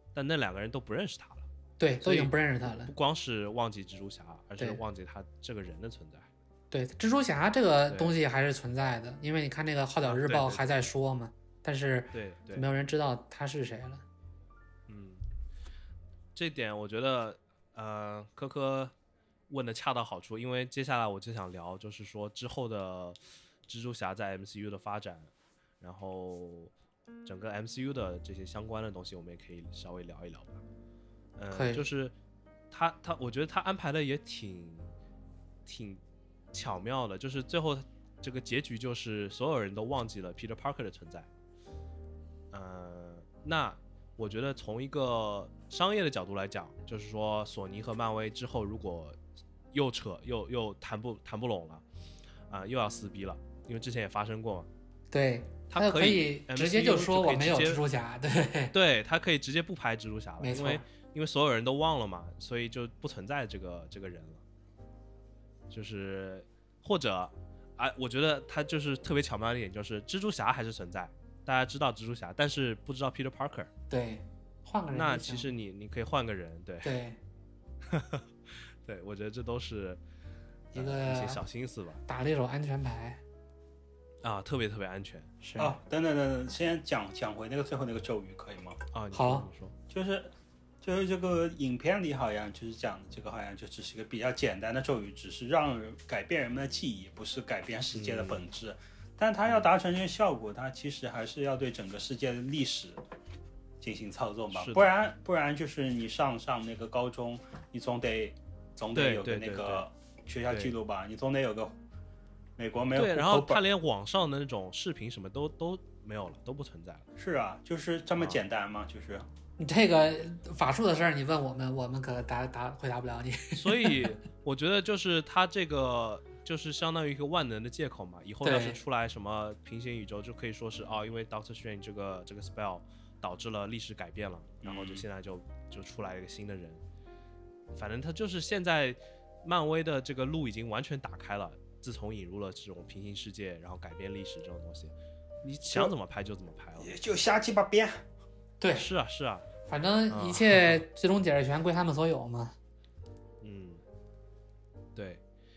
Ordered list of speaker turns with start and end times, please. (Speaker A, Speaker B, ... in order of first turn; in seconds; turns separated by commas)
Speaker A: 0.1-1.5, Speaker B: 1.8-2.9, Speaker A: 2.0-6.3, Speaker B: 6.7-14.0, Speaker A: 7.9-8.2, Speaker A: 10.1-10.7, Speaker A: 12.1-12.7, Speaker A: 14.9-15.2, Speaker A: 16.4-18.9, Speaker A: 19.5-25.3, Speaker A: 25.8-26.7, Speaker A: 27.2-30.6, Speaker A: 31.4-32.1, Speaker B: 31.5-31.9, Speaker A: 32.7-34.9, Speaker A: 35.7-36.0, Speaker A: 36.5-41.3, Speaker A: 42.5-49.2, Speaker A: 49.7-51.8, Speaker A: 52.5-54.7, Speaker B: 55.1-58.7, Speaker A: 55.7-57.8, Speaker A: 58.7-64.4, Speaker B: 60.4-60.9, Speaker A: 65.7-73.7, Speaker B: 73.9-75.5, Speaker A: 74.9-77.0, Speaker B: 76.8-77.2, Speaker A: 77.8-80.0, Speaker B: 80.7-81.4, Speaker A: 80.7-82.0, Speaker B: 82.1-83.2, Speaker A: 84.2-85.3, Speaker B: 85.4-85.8, Speaker C: 85.6-88.8, Speaker A: 88.9-89.7, Speaker B: 89.1-89.5, Speaker C: 89.9-103.0, Speaker A: 97.9-98.5, Speaker C: 103.8-111.8, Speaker A: 104.5-104.9, Speaker A: 108.9-109.8, Speaker A: 110.5-110.7, Speaker C: 112.6-113.6, Speaker A: 113.0-117.0, Speaker C: 117.2-119.3, Speaker B: 119.6-124.1, Speaker A: 123.5-136.8, Speaker B: 128.4-128.8, Speaker C: 134.6-135.1, Speaker A: 137.7-144.9, Speaker A: 145.4-146.9, Speaker C: 145.7-145.9, Speaker C: 146.8-148.0, Speaker B: 148.6-148.9, Speaker A: 148.7-149.4, Speaker B: 149.7-152.6, Speaker A: 150.1-150.8, Speaker A: 153.4-153.8, Speaker A: 154.9-155.2